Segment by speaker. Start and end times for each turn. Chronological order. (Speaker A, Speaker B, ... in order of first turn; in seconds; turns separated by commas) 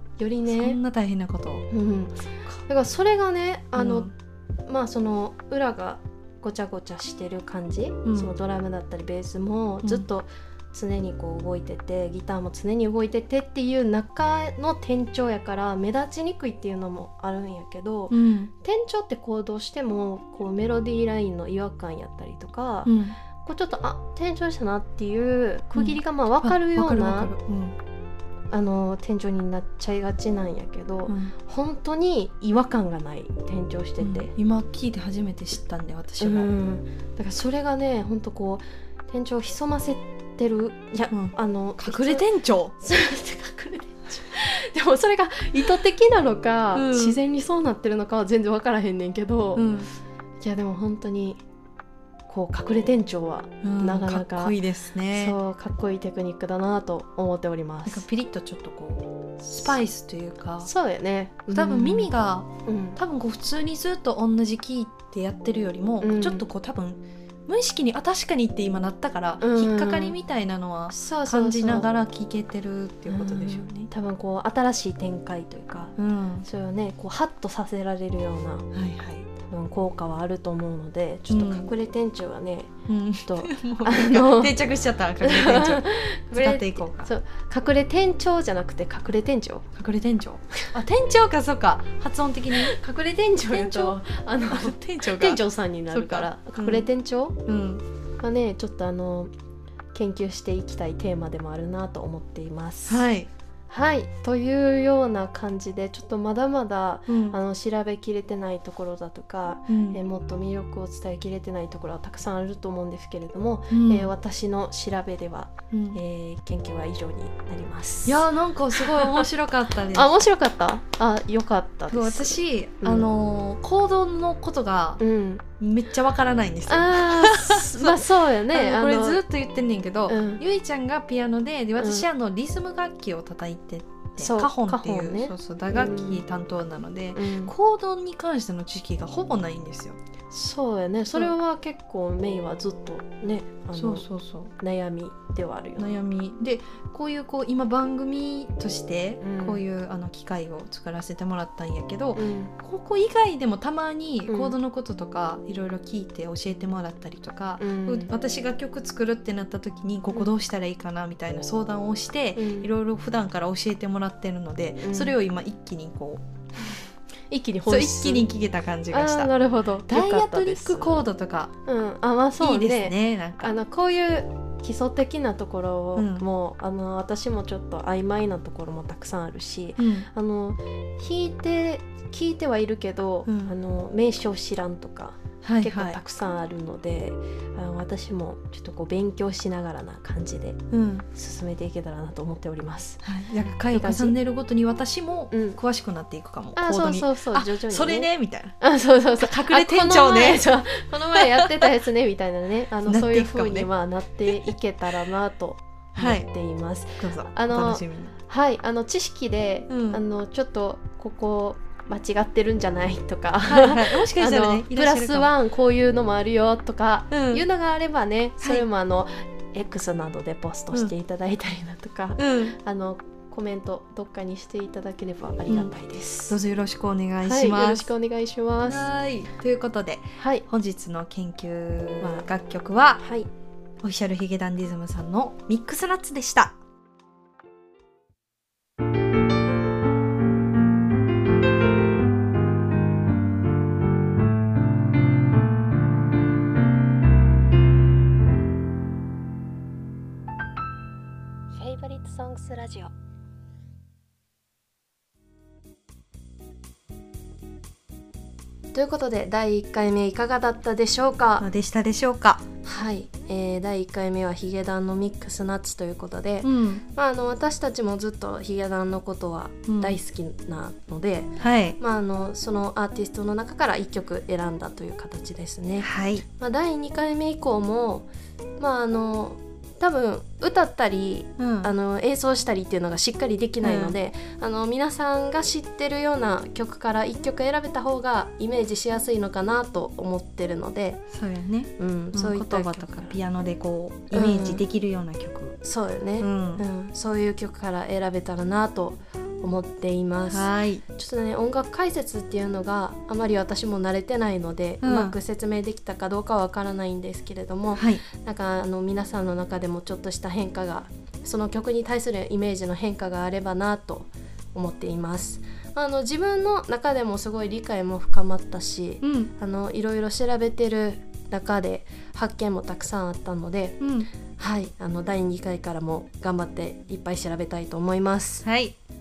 Speaker A: 0.2-0.8, Speaker B: 0.5-1.6, Speaker A: 1.7-2.1, Speaker A: 2.7-4.1, Speaker B: 3.8-4.1, Speaker A: 4.7-22.9, Speaker B: 8.1-8.3, Speaker B: 18.1-18.5, Speaker B: 22.9-23.2, Speaker A: 23.4-27.3, Speaker B: 25.8-27.8, Speaker A: 28.5-34.3, Speaker B: 31.1-31.3, Speaker B: 34.0-36.5, Speaker A: 36.2-42.2, Speaker B: 41.1-42.8, Speaker A: 42.8-49.6, Speaker B: 46.7-47.2, Speaker B: 49.5-49.9, Speaker A: 50.4-51.4, Speaker A: 52.3-54.5, Speaker B: 53.6-55.4, Speaker A: 55.1-58.0, Speaker B: 57.9-60.7, Speaker A: 60.6-62.1, Speaker B: 61.5-73.9, Speaker A: 62.7-63.0, Speaker A: 66.0-66.4, Speaker A: 69.4-70.2, Speaker A: 70.9-71.9, Speaker A: 73.1-75.9, Speaker B: 76.0-76.5, Speaker A: 76.4-78.6, Speaker B: 78.7-79.3, Speaker A: 79.5-82.7, Speaker B: 81.3-81.7, Speaker B: 82.9-87.1, Speaker A: 83.2-84.6, Speaker A: 85.2-89.6, Speaker B: 89.8-92.8, Speaker A: 92.6-97.3, Speaker B: 93.5-96.9, Speaker B: 97.5-97.8, Speaker A: 98.2-99.3, Speaker A: 99.9-103.0, Speaker B: 102.9-103.3, Speaker A: 103.7-119.3, Speaker B: 107.1-107.4, Speaker B: 109.7-110.0, Speaker B: 113.7-114.1, Speaker B: 115.7-116.0, Speaker B: 118.1-120.2, Speaker A: 119.9-123.1, Speaker B: 121.9-125.0, Speaker A: 125.0-125.4, Speaker B: 125.6-140.0, Speaker A: 126.7-129.2, Speaker A: 130.1-130.4, Speaker A: 131.8-132.1, Speaker A: 134.2-136.2, Speaker A: 137.2-137.5, Speaker A: 140.3-144.1, Speaker B: 143.7-144.5, Speaker A: 144.6-146.0, Speaker B: 145.8-166.2, Speaker A: 149.2-149.6, Speaker A: 152.2-152.5, Speaker A: 154.3-154.6, Speaker A: 157.6-158.1, Speaker A: 162.4-162.7, Speaker A: 164.8-165.2, Speaker A: 167.3-168.3, Speaker B: 167.7-169.3, Speaker A: 168.9-171.0, Speaker B: 169.9-171.5, Speaker A: 171.7-190.6, Speaker B: 172.4-173.6, Speaker B: 176.0-176.2, Speaker B: 179.8-180.1, Speaker B: 183.3-183.5, Speaker B: 185.4-186.0, Speaker B: 190.7-191.1, Speaker A: 191.2-193.0, Speaker B: 193.0-198.6, Speaker A: 193.7-194.2, Speaker A: 195.3-195.6, Speaker A: 196.6-198.1, Speaker A: 198.6-226.4, Speaker B: 199.2-200.5, Speaker B: 202.8-203.7, Speaker B: 204.3-204.5, Speaker B: 206.0-206.3, Speaker B: 207.0-208.1, Speaker B: 209.7-210.0, Speaker B: 213.4-215.3, Speaker B: 217.1-217.4, Speaker B: 218.4-218.7, Speaker B: 222.2-222.6, Speaker B: 226.3-227.9, Speaker A: 227.2-228.9, Speaker B: 228.6-233.0, Speaker A: 230.2-230.4, Speaker A: 232.0-232.3, Speaker A: 233.0-233.3, Speaker B: 233.8-236.6, Speaker A: 251.6-252.9, Speaker A: 258.7-261.5, Speaker B: 261.4-262.4, Speaker A: 262.6-275.9, Speaker B: 266.4-266.8, Speaker B: 269.7-270.0, Speaker B: 271.4-271.8, Speaker B: 275.8-276.2, Speaker A: 276.4-278.1, Speaker A: 278.6-291.0, Speaker B: 281.4-281.7, Speaker B: 283.6-284.0, Speaker B: 291.1-295.6, Speaker A: 291.8-293.1, Speaker A: 294.1-294.6, Speaker A: 295.6-323.8, Speaker B: 296.2-296.6, Speaker B: 300.3-300.8, Speaker B: 304.8-305.2, Speaker B: 307.8-308.0, Speaker B: 319.0-319.3, Speaker B: 323.8-324.1, Speaker A: 324.4-328.4, Speaker B: 328.4-328.8